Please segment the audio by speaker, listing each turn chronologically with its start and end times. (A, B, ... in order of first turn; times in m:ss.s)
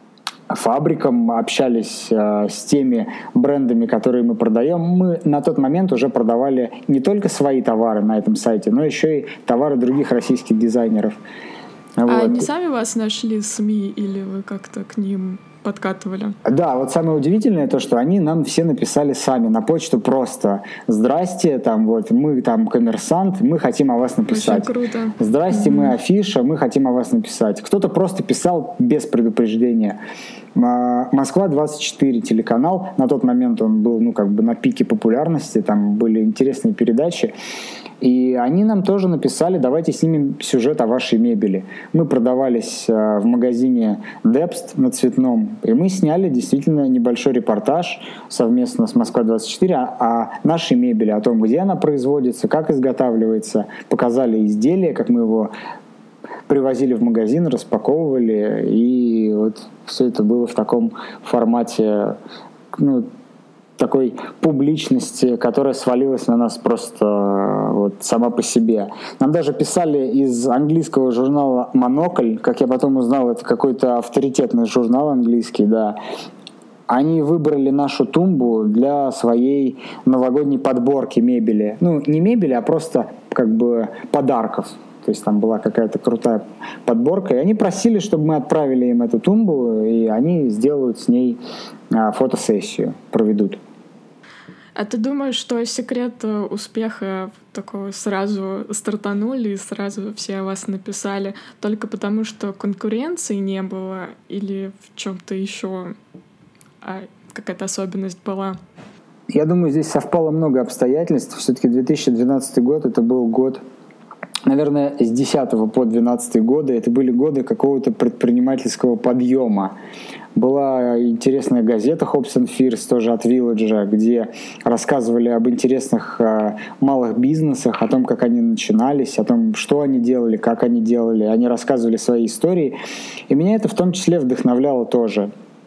0:00.5-0:11.2 A
0:12.0-0:12.5 A
0:12.0-0:16.4 B
0:16.4-0:30.0 A
0:24.3-0:25.9 B
0:30.5-0:37.3 A
0:38.0-0:55.5 A
0:56.5-1:02.2 A
1:02.7-1:03.1 A
1:03.8-1:16.0 A
1:16.9-1:31.4 A
1:31.9-1:33.6 A
1:34.8-1:45.9 B
1:46.8-1:48.6 B
1:49.3-1:53.6 A
1:54.5-1:59.7 A
2:00.3-2:12.8 A
2:13.3-2:15.3 A